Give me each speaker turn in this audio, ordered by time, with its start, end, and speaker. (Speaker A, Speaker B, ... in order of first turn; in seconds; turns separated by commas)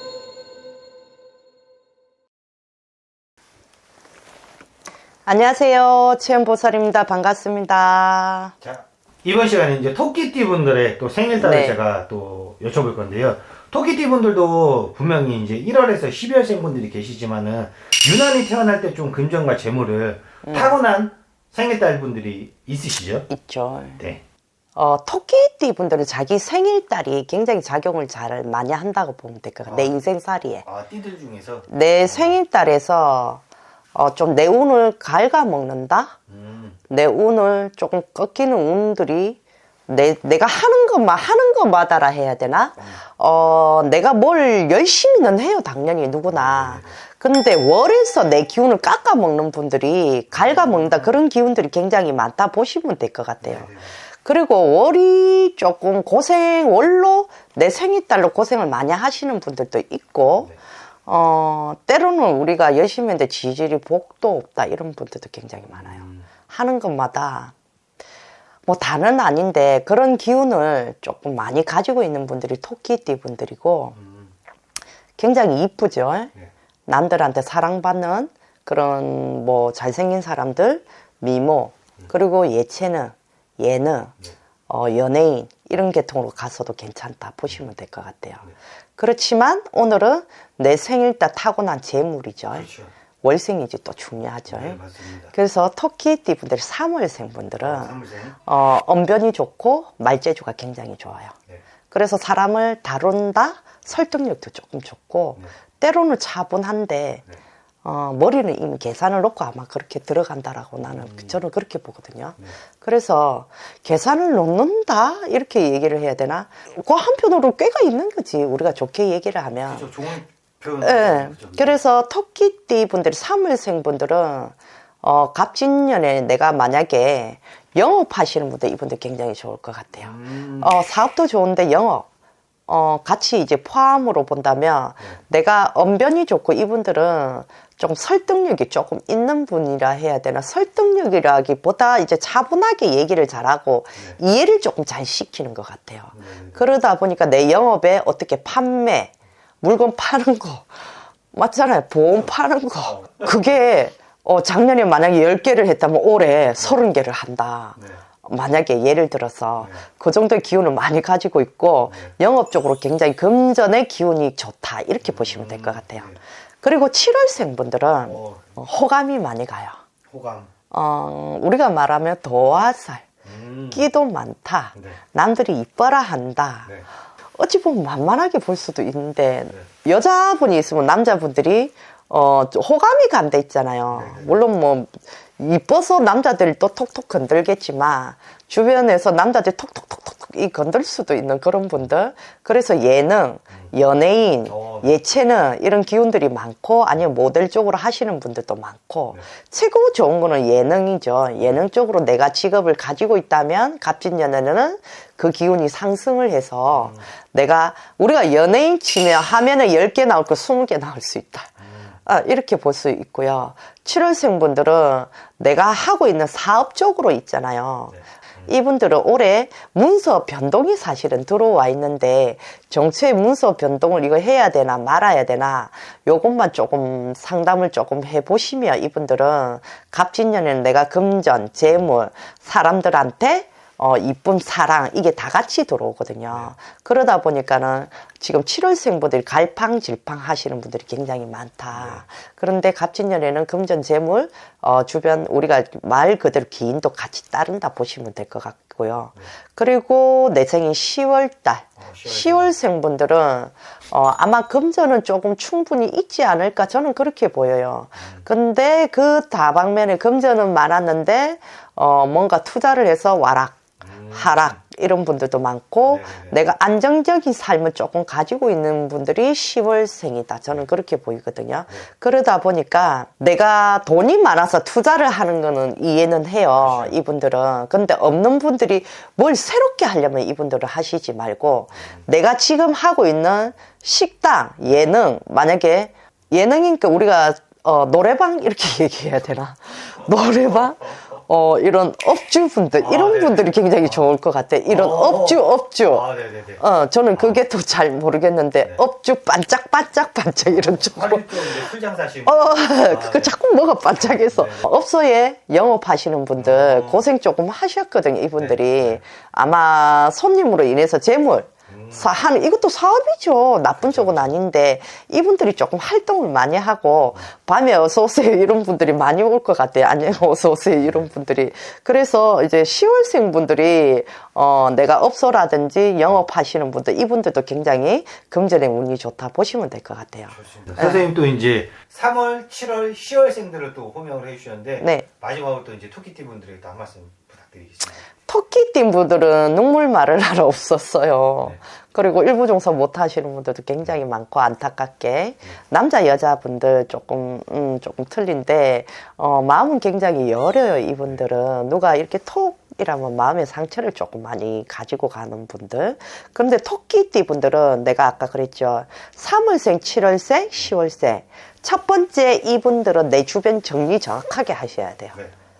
Speaker A: 5.2-8.5, Speaker B: 8.6-23.3, Speaker A: 11.3-11.8, Speaker A: 20.4-20.7, Speaker A: 23.3-24.0, Speaker A: 24.8-30.6, Speaker B: 29.6-29.9, Speaker B: 30.6-32.3, Speaker A: 31.7-33.4, Speaker A: 33.9-36.1, Speaker B: 36.3-36.8, Speaker A: 36.9-60.5, Speaker B: 46.3-47.0, Speaker B: 50.3-51.1, Speaker B: 53.4-53.9, Speaker A: 61.0-67.5, Speaker B: 65.8-66.2, Speaker A: 68.7-74.0, Speaker B: 73.9-74.3, Speaker A: 75.2-76.3, Speaker A: 76.9-84.1, Speaker A: 84.7-88.4, Speaker A: 89.0-92.7, Speaker B: 92.5-92.9, Speaker A: 93.2-94.8, Speaker B: 94.5-95.3, Speaker A: 95.3-101.3, Speaker B: 97.6-98.4, Speaker A: 101.9-107.2, Speaker A: 107.8-119.9, Speaker B: 110.8-111.3, Speaker B: 119.7-121.7, Speaker A: 120.8-132.1, Speaker B: 130.0-130.8, Speaker A: 132.7-166.1, Speaker B: 146.1-146.6, Speaker B: 152.8-153.6, Speaker B: 165.0-166.2, Speaker A: 166.6-169.8, Speaker B: 168.0-168.5, Speaker B: 170.1-170.5, Speaker A: 170.7-173.1, Speaker B: 173.2-173.8, Speaker A: 173.7-176.7, Speaker A: 177.3-296.1, Speaker B: 183.9-184.4, Speaker B: 194.4-194.9, Speaker B: 206.7-207.1, Speaker B: 211.6-211.9, Speaker B: 217.9-218.5, Speaker B: 241.7-242.0, Speaker B: 251.8-252.5, Speaker B: 263.8-264.6, Speaker B: 265.9-266.3, Speaker B: 276.6-276.9, Speaker B: 292.8-294.1, Speaker B: 294.7-296.6, Speaker A: 296.6-301.7, Speaker B: 297.1-297.4, Speaker B: 300.5-303.3, Speaker A: 302.2-331.0, Speaker B: 304.0-304.7, Speaker B: 306.4-307.0, Speaker B: 308.4-309.0, Speaker B: 311.7-312.1, Speaker B: 313.8-314.2, Speaker B: 330.3-338.0, Speaker A: 334.8-335.1, Speaker A: 338.3-365.2